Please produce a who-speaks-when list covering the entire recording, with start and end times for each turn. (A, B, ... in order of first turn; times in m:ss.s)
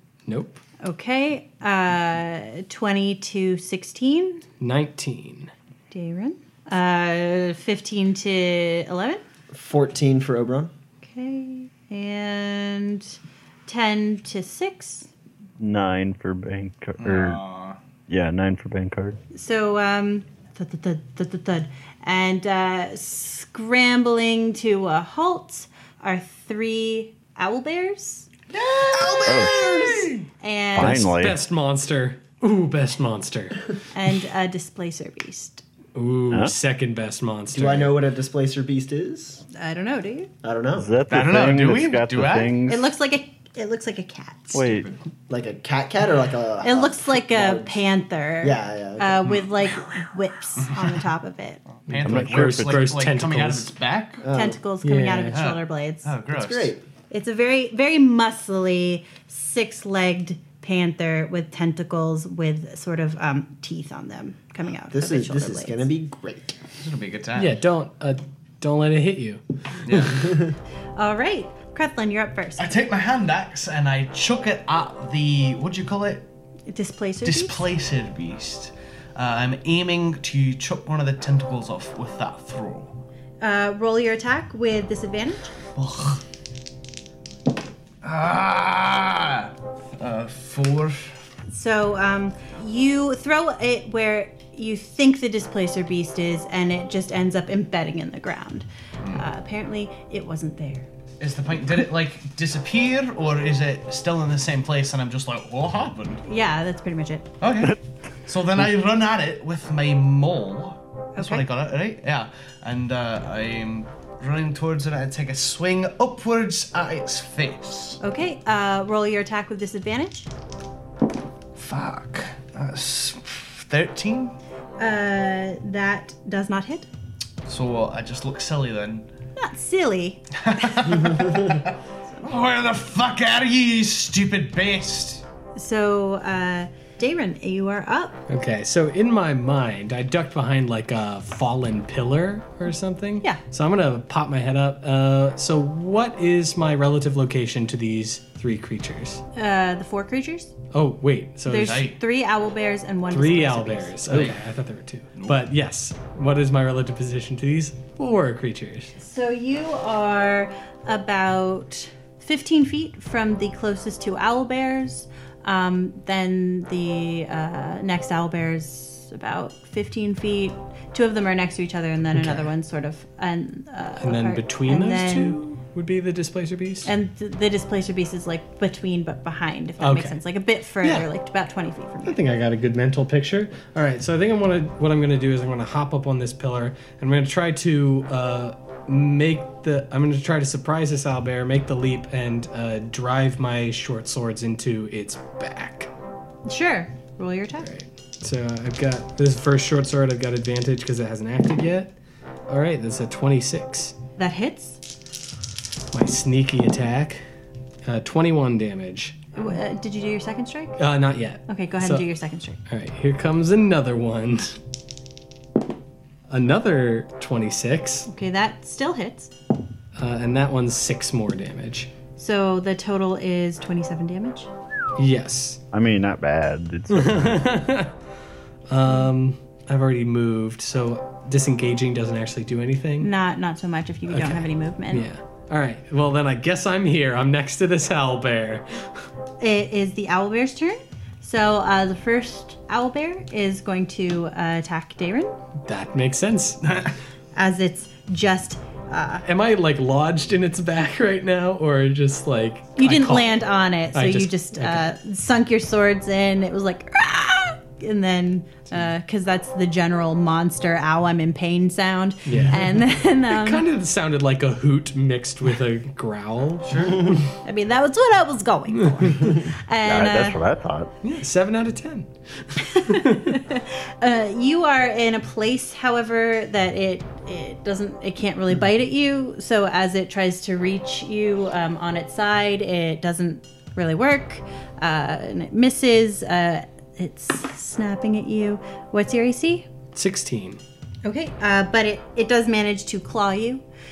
0:00.3-0:00.6 A
0:00.8-0:04.4 B
0:04.6-0:05.5 A
0:05.9-0:09.2 B
0:09.5-0:10.7 C
0:11.0-0:15.1 B
0:15.6-0:17.4 D
0:17.0-0:17.8 E
0:18.1-0:19.2 D
0:19.3-0:28.3 B
0:28.5-0:30.3 E
0:28.9-0:30.1 C
0:29.2-0:29.6 D
0:30.4-0:31.1 B
0:30.7-0:31.4 D
0:30.7-0:33.7 A
0:33.9-0:35.6 B
0:35.9-0:38.0 A
0:37.5-0:39.4 C
0:39.5-0:40.3 B
0:40.4-0:40.9 C
0:40.8-0:42.9 D
0:41.1-0:42.6 E
0:42.7-0:44.8 B
0:44.5-0:44.9 D
0:45.3-0:47.8 C
0:46.6-0:51.6 B
0:48.4-0:49.3 C
0:50.6-0:50.9 E
0:51.9-0:54.3 E
0:51.9-0:53.7 A
0:52.0-0:52.8 D
0:54.2-0:54.6 C
0:54.3-0:56.1 B
0:54.8-0:55.4 A
0:55.3-0:56.7 E
0:56.3-0:56.8 C
0:57.1-1:05.9 B
1:04.9-1:06.6 C
1:06.8-1:07.6 E
1:07.4-1:10.1 A
1:09.8-1:10.3 E
1:11.0-1:12.8 B
1:12.6-1:16.3 E
1:16.7-1:17.6 B
1:17.2-1:22.9 E
1:23.4-1:25.5 B
1:25.7-1:26.2 E
1:28.0-1:31.2 E
1:31.5-1:40.9 B
1:41.2-1:46.2 E
1:46.2-1:47.3 B
1:47.4-1:58.0 E
1:51.2-1:51.5 B
1:58.0-2:00.3 B
2:01.6-2:04.3 E
2:04.8-2:06.9 B
2:07.4-2:09.1 E
2:09.4-2:11.2 B
2:10.4-2:15.2 E
2:15.6-2:18.2 B
2:18.3-2:29.2 A
2:29.3-2:30.5 B
2:30.7-2:31.9 A
2:31.5-2:34.3 B
2:31.6-2:32.0 E
2:33.1-2:38.9 A
2:34.1-2:34.4 E
2:39.0-2:55.4 B
2:52.1-2:52.5 A
2:54.0-2:56.9 A
2:56.8-3:02.2 B
2:59.8-3:00.2 A
3:00.8-3:01.1 A
3:02.0-3:15.9 A
3:16.4-3:17.7 B
3:17.6-3:21.9 A
3:22.5-3:24.0 A
3:24.2-3:24.8 B
3:25.9-3:27.2 A
3:27.8-3:29.2 A
3:29.3-3:30.8 B
3:30.8-3:32.1 A
3:31.5-3:32.6 B
3:32.7-3:34.6 A
3:36.3-3:38.1 A
3:38.0-3:39.3 B
3:40.0-3:41.9 A
3:42.2-3:44.5 B
3:45.0-3:45.6 A
3:45.7-3:47.5 D
3:46.9-3:47.9 A
3:48.7-3:53.1 A
3:53.0-3:55.1 B
3:54.1-3:59.0 A
3:59.4-4:05.4 B
4:05.6-4:06.6 A
4:06.6-4:06.9 E
4:07.3-4:09.2 B
4:09.2-4:13.4 A
4:12.8-4:23.6 B
4:13.9-4:14.8 A
4:22.3-4:27.3 A
4:26.6-4:27.1 E
4:27.4-4:30.4 B
4:28.8-4:29.2 A
4:29.8-4:30.9 D
4:31.0-4:33.4 A
4:32.6-4:49.7 B
4:49.9-4:50.6 A
4:51.0-4:53.6 B